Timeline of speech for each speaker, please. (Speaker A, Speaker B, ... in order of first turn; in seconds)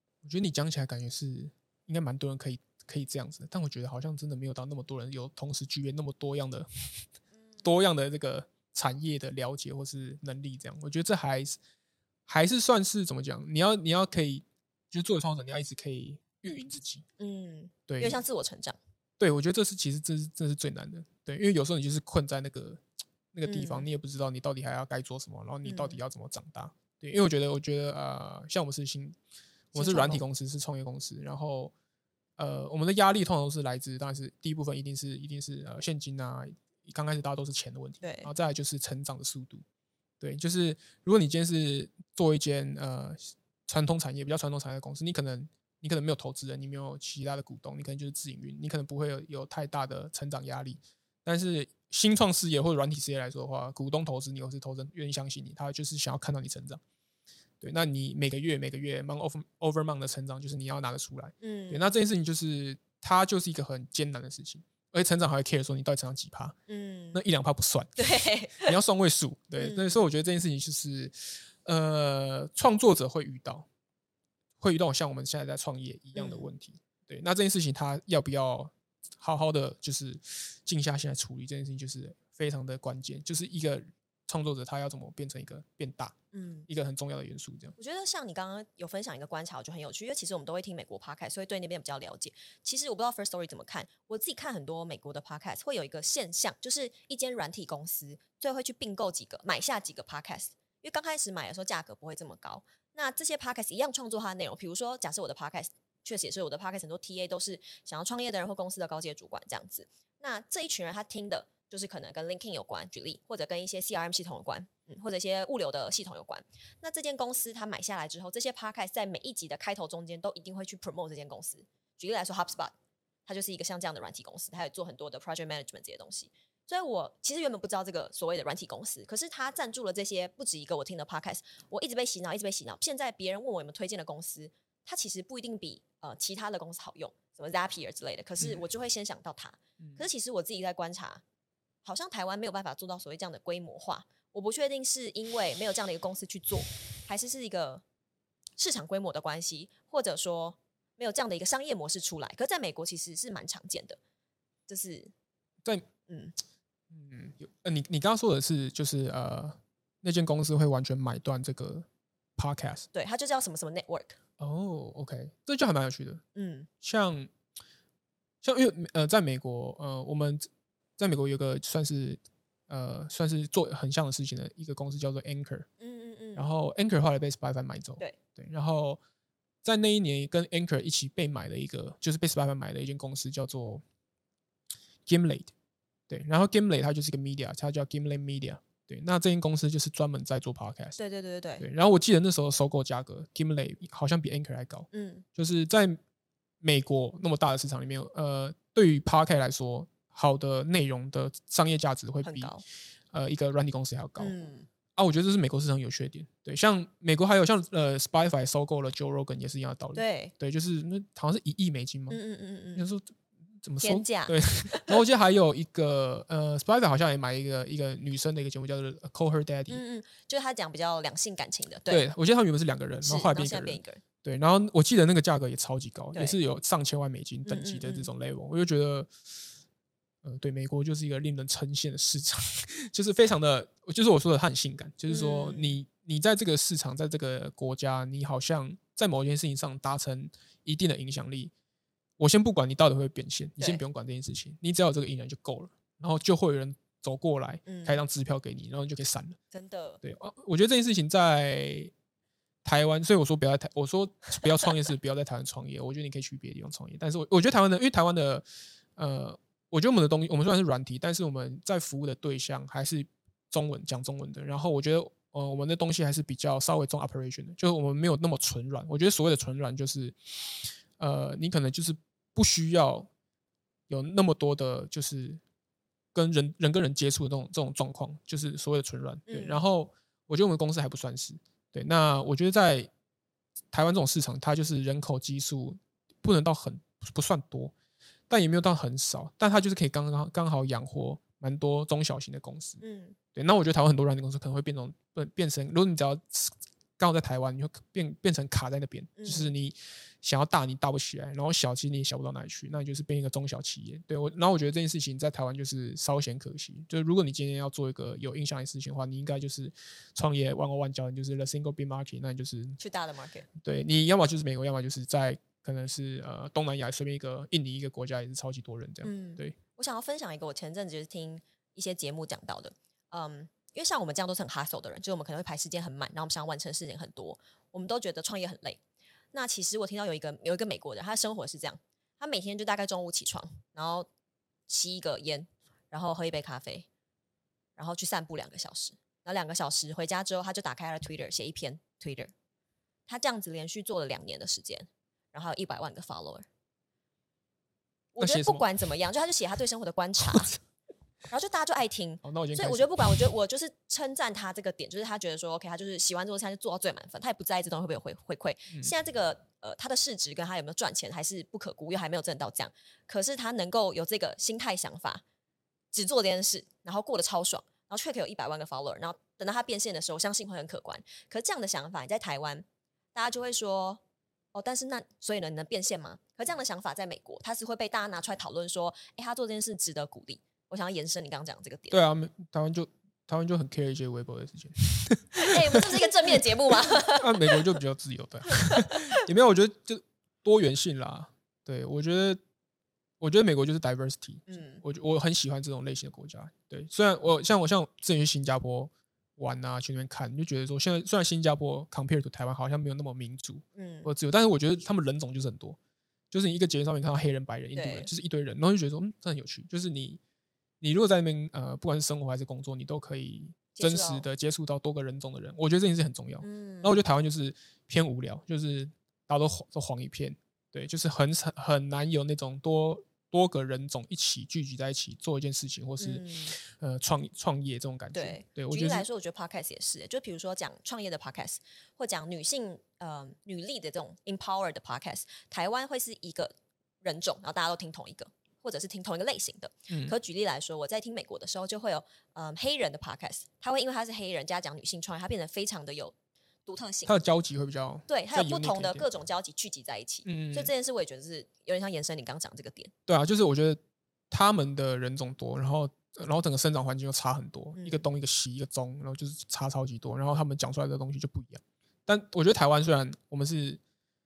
Speaker A: 0.2-6.7, 7.6-11.6, 12.3-17.0, 17.9-18.2, 19.2-22.8, 23.3-29.2, 29.7-31.7, 32.4-39.6, 40.2-56.8, 57.6-66.5, 67.1-68.0, 68.6-73.7, 74.6-86.2, 86.7-87.8, 156.9-161.8, 162.4-162.9, 164.4-166.2, 166.8-167.3, 168.4-175.7, 176.3-179.0, 179.6-183.8, 185.1-185.5, 186.1-191.0, 191.6-196.0, 196.6-202.5, 203.1-204.3, 204.9-212.2, 212.7-213.1, 213.6-219.8, 221.9-229.1, 230.2-241.5, 242.2-249.4, 250.0-251.9, 252.6-258.4, 259.0-273.1, 273.9-275.4, 276.1-282.9, 283.7-287.7, 288.3-292.8, 293.3-312.8, 313.6-319.6, 348.2-348.6, 352.2-353.2, 381.9-392.4, 393.2-405.8, 406.3-410.2, 410.8-429.1, 439.9-440.1, 447.0-449.1, 450.2-450.7, 453.1-453.8, 454.3-463.8
Speaker B: 17.2-18.8, 23.5-23.9, 25.6-26.0, 29.7-30.2, 38.0-38.3, 61.4-61.9, 66.7-67.2, 68.0-68.7, 69.6-70.0, 76.1-76.5, 86.3-86.7, 87.8-122.7, 123.2-141.2, 141.8-147.8, 148.6-154.0, 154.7-155.1, 156.1-156.3, 162.9-164.2, 166.3-166.7, 175.8-176.5, 191.0-191.7, 194.9-195.2, 202.2-202.6, 204.2-204.7, 209.9-210.3, 212.1-212.8, 213.8-215.0, 219.7-222.1, 223.0-224.0, 227.4-228.1, 235.1-235.8, 247.7-248.0, 249.5-250.0, 279.3-279.6, 292.8-293.1, 299.2-299.5, 312.8-313.5, 319.0-328.8, 329.3-334.1, 334.7-336.9, 337.8-342.3, 343.1-346.4, 348.1-350.5, 351.3-365.2, 365.9-374.0, 374.5-382.0, 385.4-387.6, 388.5-389.0, 394.5-394.8, 403.7-404.1, 407.7-408.1, 413.8-414.3, 416.4-417.0, 426.0-426.6, 428.1-446.1, 446.6-447.2, 448.1-452.9, 457.8-458.1